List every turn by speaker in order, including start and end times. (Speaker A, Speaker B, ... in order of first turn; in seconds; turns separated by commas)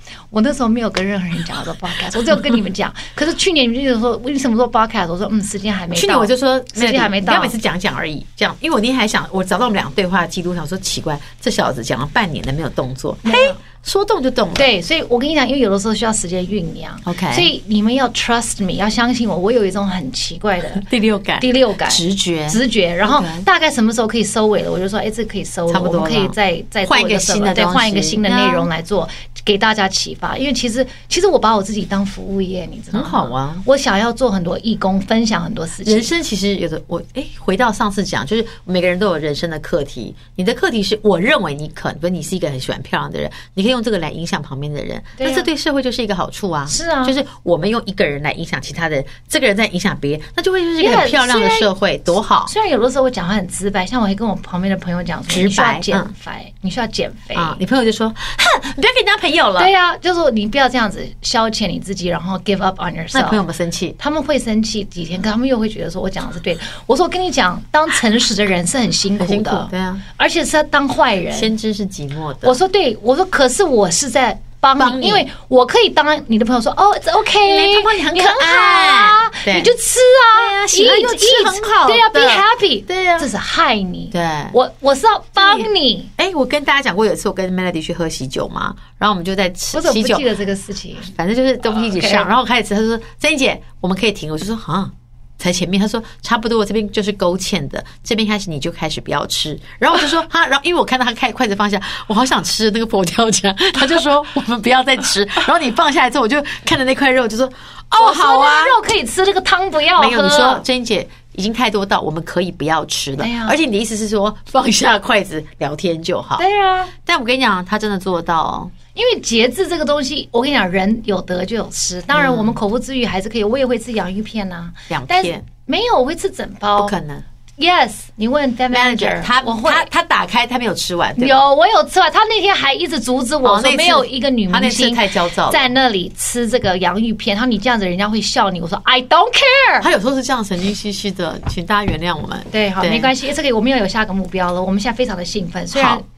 Speaker A: 0.3-7.5, Speaker B: 5.9-14.7, Speaker A: 13.2-13.6, Speaker A: 14.6-20.9, Speaker B: 17.1-17.5, Speaker B: 20.7-23.5, Speaker A: 21.4-36.1, Speaker B: 25.7-28.7, Speaker B: 32.9-33.6, Speaker B: 35.8-52.5, Speaker A: 45.2-45.5, Speaker A: 46.7-47.1, Speaker A: 50.8-51.7, Speaker A: 52.5-57.6, Speaker B: 55.3-56.1, Speaker B: 57.3-59.7, Speaker A: 59.6-63.4, Speaker B: 63.1-64.0, Speaker A: 64.0-71.5, Speaker B: 69.2-70.0, Speaker B: 71.3-72.6, Speaker A: 72.4-86.1, Speaker B: 74.8-75.3, Speaker B: 77.4-79.7, Speaker B: 80.3-83.3, Speaker B: 84.1-84.6, Speaker B: 85.4-90.3, Speaker A: 89.7-91.1, Speaker B: 91.1-108.8, Speaker A: 91.7-92.3, Speaker A: 108.0-110.7, Speaker B: 110.0-116.4, Speaker A: 113.2-113.6, Speaker A: 116.4-116.9, Speaker B: 117.0-118.7, Speaker A: 119.0-126.9, Speaker B: 122.1-122.6, Speaker B: 124.9-125.5, Speaker B: 126.8-127.2, Speaker A: 127.6-129.9, Speaker B: 128.7-131.4, Speaker A: 131.2-139.9, Speaker B: 133.4-135.7, Speaker B: 139.8-143.1, Speaker A: 142.5-146.1, Speaker B: 145.7-146.0